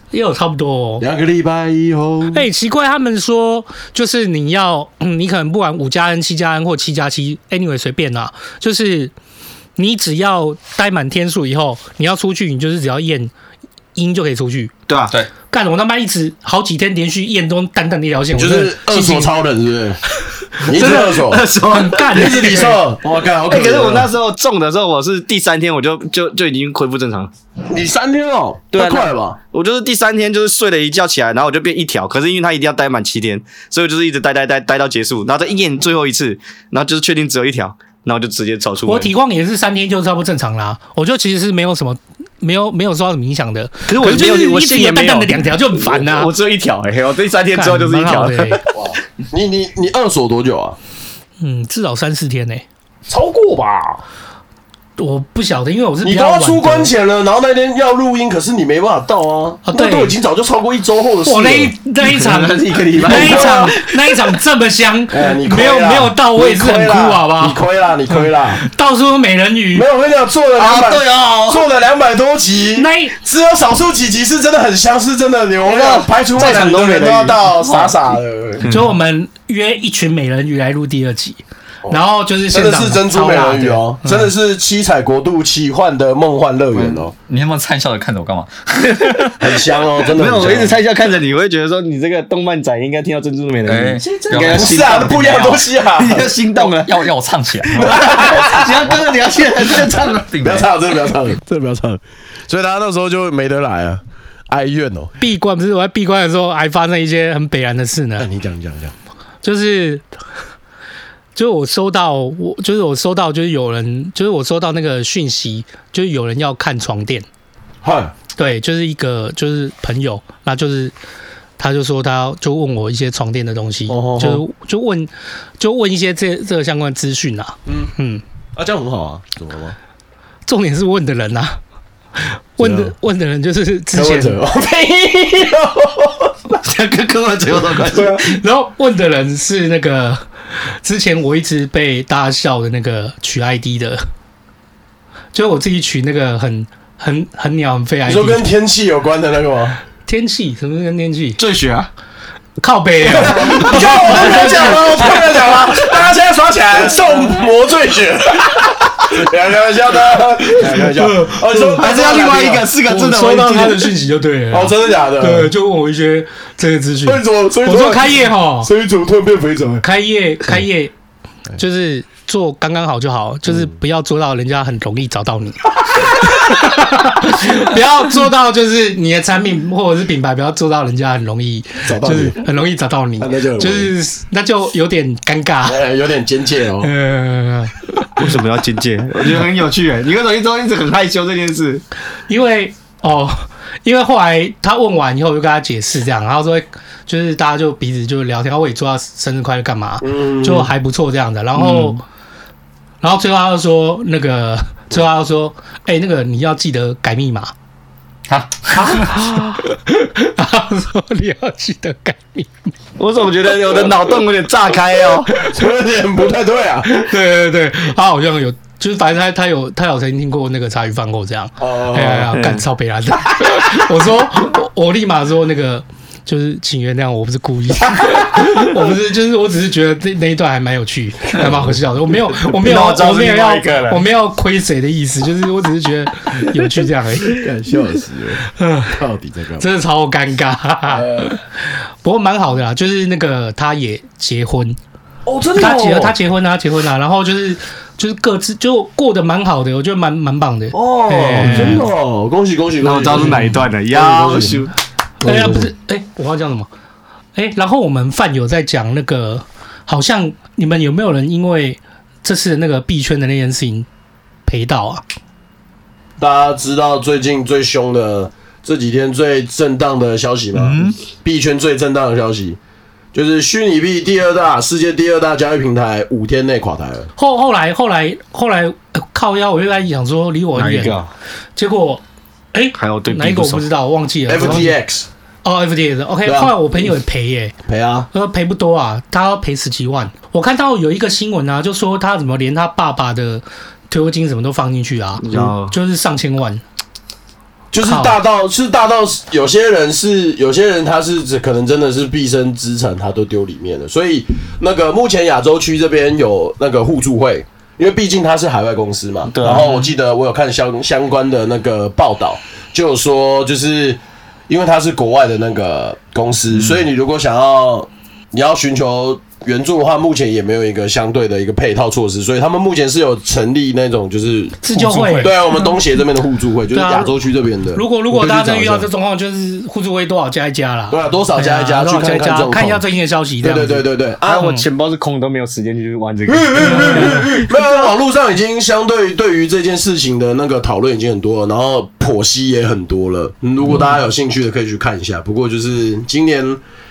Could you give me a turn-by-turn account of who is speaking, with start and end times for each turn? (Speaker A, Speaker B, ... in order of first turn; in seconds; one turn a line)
Speaker A: 0.1-1.0
Speaker B: 1.0-2.5
Speaker A: 2.3-9.1
Speaker A: 9.8-13.3
Speaker A: 13.9-14.7
Speaker C: 14.9-15.1
Speaker A: 15.5-19.3
Speaker B: 18.3-20.0
Speaker A: 20.6-22.8
Speaker B: 20.6-21.4
Speaker C: 20.7-22.7
Speaker B: 22.1-24.1
Speaker C: 23.5-27.3
Speaker B: 27.7-29.4
Speaker C: 28.7-39.1
Speaker A: 38.9-46.3
Speaker C: 43.9-48.8
Speaker A: 47.5-48.6
Speaker B: 48.7-50.8
Speaker A: 51.4-52.6
Speaker B: 53.1-54.0
Speaker A: 55.0-56.9
Speaker B: 56.0-61.7
Speaker A: 59.6-60.1
Speaker A: 61.2-67.6
Speaker C: 62.1-64.1
Speaker B: 62.9-63.7
Speaker B: 65.1-68.6
Speaker A: 68.6-69.9
Speaker B: 69.7-78.7
Speaker C: 70.6-71.6
Speaker D: 70.7-71.2
Speaker A: 72.8-73.1
Speaker C: 75.6-77.9
Speaker C: 78.6-78.9
Speaker A: 78.7-84.3
Speaker B: 81.8-87.1
Speaker D: 86.7-89.3
Speaker C: 88.8-89.3
Speaker B: 89.4-90.8
Speaker C: 90.0-97.1
Speaker D: 93.7-95.6
Speaker B: 94.3-96.3
Speaker D: 96.6-99.0
Speaker C: 97.7-100.3
Speaker B: 97.8-98.7
Speaker D: 99.7-100.7
Speaker B: 100.4-105.1
Speaker A: 105.2-108.3
Speaker B: 108.2-108.9
Speaker A: 109.4-110.0
Speaker A: 111.3-117.2
Speaker B: 117.8-118.1
Speaker A: 118.4-120.9
Speaker A: 121.6-128.2
Speaker B: 123.9-124.4
Speaker B: 127.7-127.9
Speaker B: 128.6-129.8
Speaker A: 130.5-131.6
Speaker A: 132.6-134.4
Speaker B: 132.6-132.9
Speaker B: 133.9-136.3
Speaker C: 136.6-138.2
Speaker B: 137.8-138.3
Speaker A: 138.2-140.2
Speaker A: 140.8-144.0
Speaker A: 145.3-148.4
Speaker B: 148.1-149.8
Speaker A: 150.1-151.4
Speaker C: 151.4-151.9
Speaker A: 152.6-155.2
Speaker B: 153.0-162.7
Speaker C: 153.7-155.2
Speaker A: 160.8-161.8
Speaker C: 161.8-163.9
Speaker A: 162.9-168.7
Speaker B: 164.5-165.5
Speaker B: 167.1-169.8
Speaker A: 169.8-170.9
Speaker A: 171.6-185.8
Speaker B: 181.8-182.4
Speaker B: 183.2-183.9
Speaker B: 185.6-186.9
Speaker A: 186.8-188.3
Speaker C: 188.2-191.8
Speaker A: 192.3-202.0
Speaker B: 200.0-200.7
Speaker C: 201.6-201.9
Speaker A: 203.0-207.5
Speaker D: 208.3-209.1
Speaker C: 208.7-209.1
Speaker A: 209.0-212.7
Speaker C: 213.0-215.3
Speaker B: 215.4-216.9
Speaker A: 216.8-237.4
Speaker B: 221.6-222.3
Speaker C: 222.3-222.6
Speaker C: 232.5-234.0
Speaker B: 237.3-239.7
Speaker A: 238.6-239.0
Speaker A: 239.6-241.4
Speaker B: 240.9-241.3
Speaker A: 242.0-244.8
Speaker B: 245.2-246.2
Speaker A: 245.6-251.8
Speaker B: 250.8-254.7
Speaker C: 250.8-251.8
Speaker C: 252.8-254.7
Speaker A: 255.2-256.7
Speaker B: 255.2-255.7
Speaker A: 257.3-263.9
Speaker A: 264.4-265.0
Speaker B: 266.2-272.6
Speaker D: 270.5-271.0
Speaker B: 273.1-277.1
Speaker A: 277.2-281.0
Speaker C: 280.5-281.1
Speaker A: 281.6-282.0
Speaker A: 282.5-284.7
Speaker C: 282.8-283.7
Speaker B: 284.3-285.1
Speaker A: 285.4-287.5
Speaker B: 286.2-286.9
Speaker B: 287.6-288.1
Speaker A: 288.1-296.6
Speaker C: 295.2-295.7
Speaker B: 297.7-328.9
Speaker A: 297.8-298.2
Speaker C: 309.3-309.7
Speaker A: 324.6-325.7
Speaker A: 326.7-327.1
Speaker A: 327.7-334.6
Speaker B: 330.9-332.8
Speaker B: 333.4-334.4
Speaker C: 334.2-337.3
Speaker B: 336.2-346.6
Speaker A: 336.6-337.2